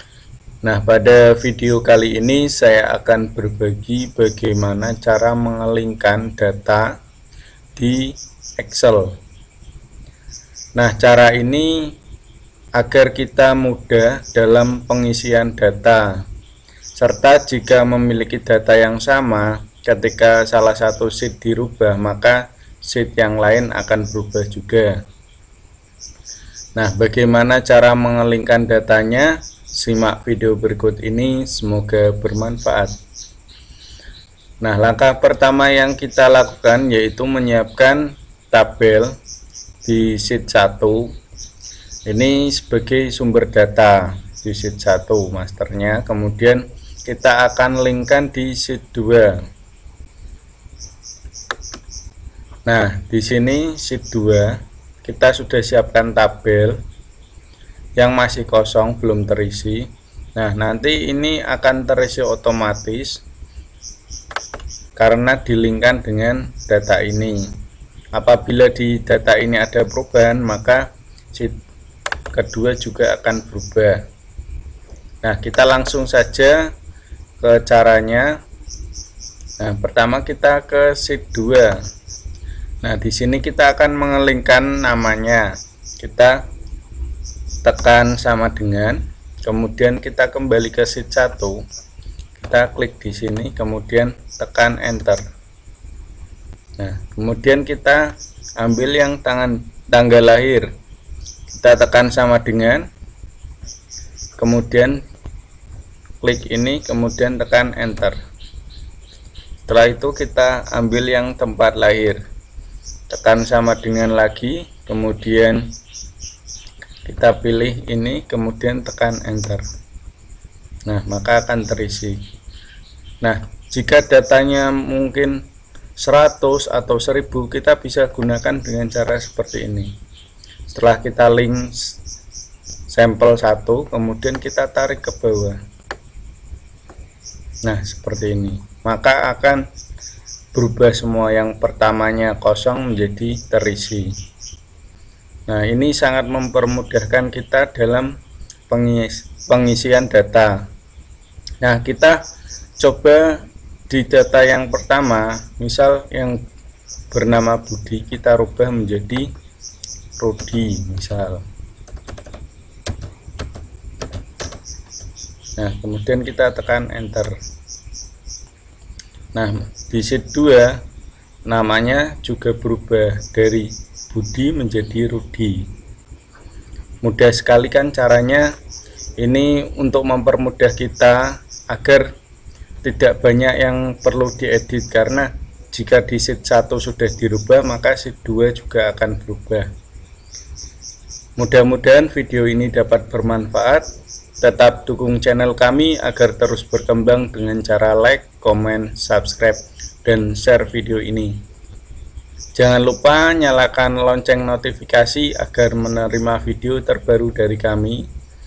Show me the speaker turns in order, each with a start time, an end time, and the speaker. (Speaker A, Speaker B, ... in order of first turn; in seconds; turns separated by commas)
Speaker A: 0.6-6.9, Speaker A: 7.8-9.2, Speaker A: 10.8-11.9, Speaker A: 12.8-16.2, Speaker A: 17.0-25.0, Speaker A: 26.8-33.0, Speaker A: 34.6-39.2, Speaker A: 39.8-41.1, Speaker A: 42.1-49.4, Speaker A: 52.7-56.8, Speaker A: 58.0-63.2, Speaker A: 65.0-67.5, Speaker A: 68.1-71.6, Speaker A: 72.3-74.0, Speaker A: 75.2-76.7, Speaker A: 77.4-78.3, Speaker A: 79.6-81.8, Speaker A: 82.8-86.4, Speaker A: 87.6-91.6, Speaker A: 92.4-95.2, Speaker A: 96.8-100.7, Speaker A: 101.5-102.9, Speaker A: 104.4-105.0, Speaker A: 106.2-108.2, Speaker A: 109.7-112.2, Speaker A: 113.1-115.7, Speaker A: 117.0-119.7, Speaker A: 120.9-122.2, Speaker A: 123.2-125.4, Speaker A: 126.0-129.9, Speaker A: 130.7-132.0, Speaker A: 132.9-135.6, Speaker A: 137.6-139.7, Speaker A: 140.5-144.1, Speaker A: 145.5-148.1, Speaker A: 148.7-150.7, Speaker A: 151.6-152.2, Speaker A: 152.8-156.4, Speaker A: 157.1-159.3, Speaker A: 160.2-161.4, Speaker A: 165.6-167.3, Speaker A: 169.3-170.8, Speaker A: 171.5-175.7, Speaker A: 177.0-178.5, Speaker A: 179.2-182.1, Speaker A: 182.8-189.7, Speaker A: 191.4-201.4, Speaker A: 202.6-208.1